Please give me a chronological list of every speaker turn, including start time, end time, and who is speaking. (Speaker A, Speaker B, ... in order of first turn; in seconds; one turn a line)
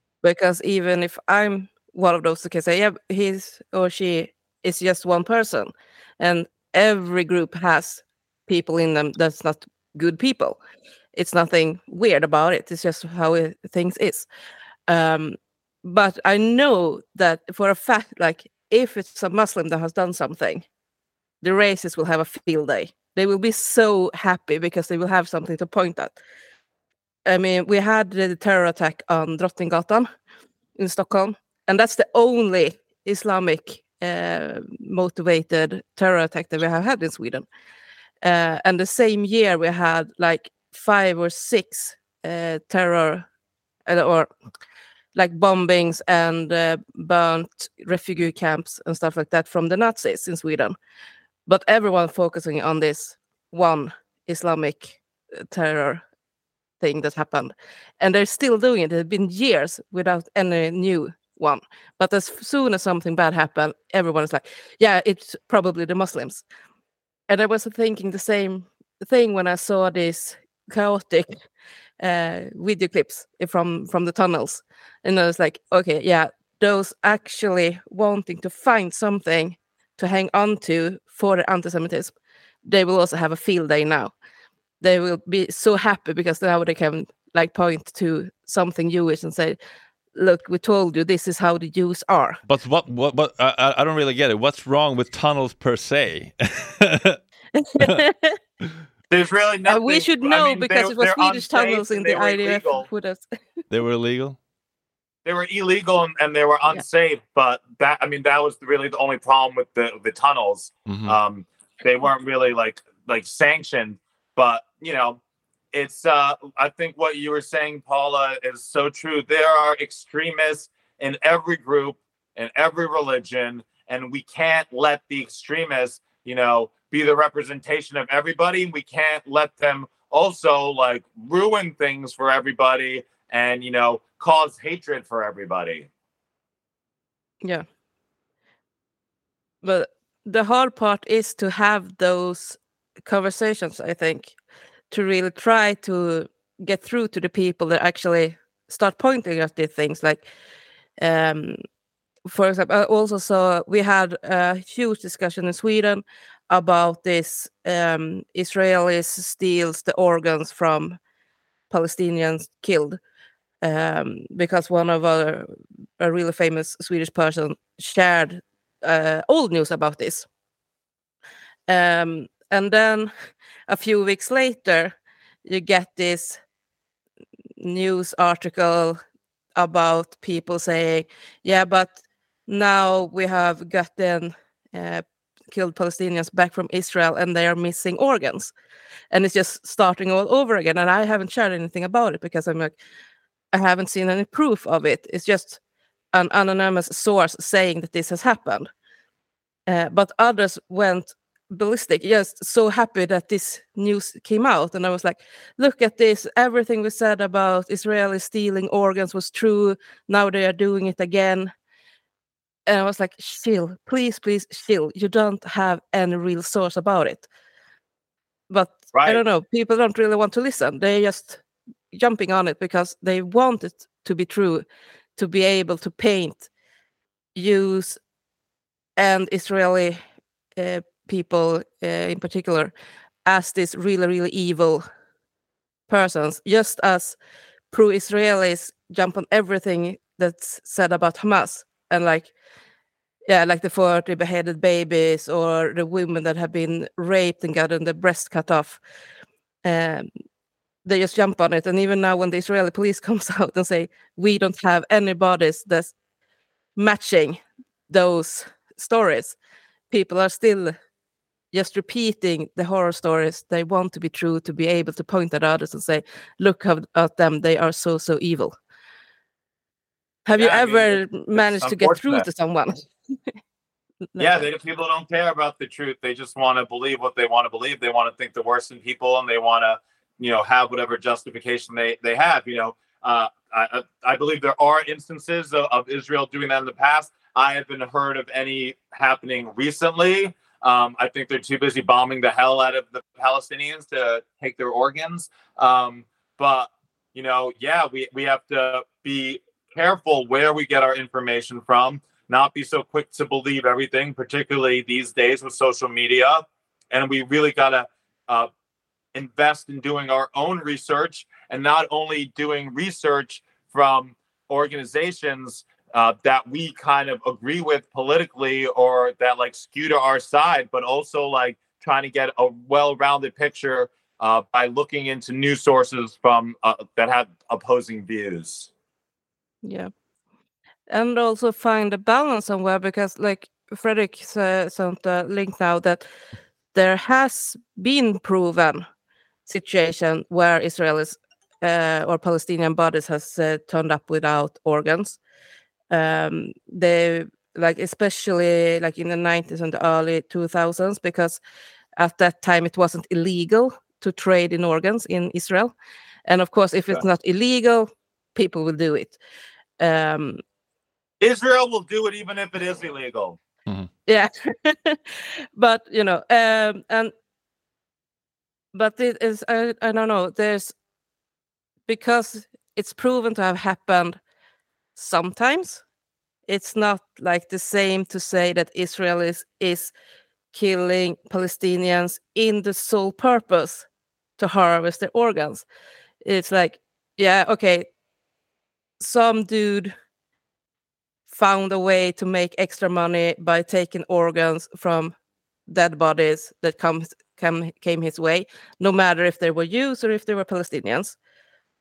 Speaker A: 0.2-10.6
Speaker A: 11.1-14.3
Speaker A: 14.9-20.6
Speaker A: 21.4-26.2
Speaker A: 27.2-30.1
Speaker A: 30.8-37.5
Speaker A: 38.2-43.3
Speaker A: 43.9-44.3
Speaker A: 45.1-50.8
Speaker A: 51.5-56.0
Speaker A: 56.8-66.4
Speaker A: 67.3-71.3
Speaker A: 72.0-82.1
Speaker A: 82.6-84.1
Speaker A: 84.8-89.6
Speaker A: 90.1-92.4
Speaker B: 92.5-97.2
Speaker A: 97.5-98.4
Speaker C: 99.1-102.9
Speaker A: 99.7-103.2
Speaker B: 103.7-104.4
Speaker C: 105.2-115.2
Speaker B: 110.9-111.2
Speaker C: 115.7-135.9
Speaker A: 139.6-144.3
Speaker A: 144.9-150.2
Speaker A: 151.0-151.6
Speaker A: 152.3-161.0
Speaker A: 161.7-163.0
Speaker A: 163.6-165.5
Speaker A: 166.0-170.2
Speaker A: 171.7-173.1
Speaker A: 173.7-176.4
Speaker A: 177.6-179.0
Speaker A: 179.6-181.9
Speaker A: 182.5-188.5
Speaker A: 189.1-192.7
Speaker A: 193.5-195.6
Speaker A: 196.1-198.7
Speaker A: 199.7-211.5
Speaker A: 212.7-217.2
Speaker A: 218.5-221.4
Speaker C: 218.9-219.2
Speaker A: 221.9-224.6
Speaker A: 225.2-226.5
Speaker A: 227.3-228.0
Speaker A: 229.0-230.0
Speaker A: 230.6-232.7
Speaker A: 233.2-234.8
Speaker A: 235.9-237.2
Speaker A: 237.7-242.3
Speaker A: 243.3-248.8
Speaker A: 249.6-250.1
Speaker A: 250.8-255.9
Speaker A: 256.8-259.4
Speaker A: 259.9-260.7
Speaker A: 261.5-268.5
Speaker A: 270.2-272.9
Speaker C: 270.4-272.2
Speaker A: 274.1-274.5
Speaker C: 274.2-308.5
Speaker C: 309.1-328.7
Speaker A: 329.6-329.9
Speaker A: 330.9-336.0
Speaker A: 336.7-338.8
Speaker A: 339.5-345.2
Speaker A: 345.9-351.4
Speaker A: 352.0-355.7
Speaker A: 356.2-359.2
Speaker A: 359.8-360.4
Speaker C: 361.2-363.4
Speaker A: 364.1-367.1
Speaker A: 368.7-370.7
Speaker A: 371.9-374.2
Speaker A: 374.9-375.8
Speaker A: 376.5-379.9
Speaker A: 380.5-383.9
Speaker A: 384.4-385.6
Speaker A: 386.2-387.9
Speaker A: 389.0-389.9
Speaker A: 391.3-395.1
Speaker A: 395.7-401.1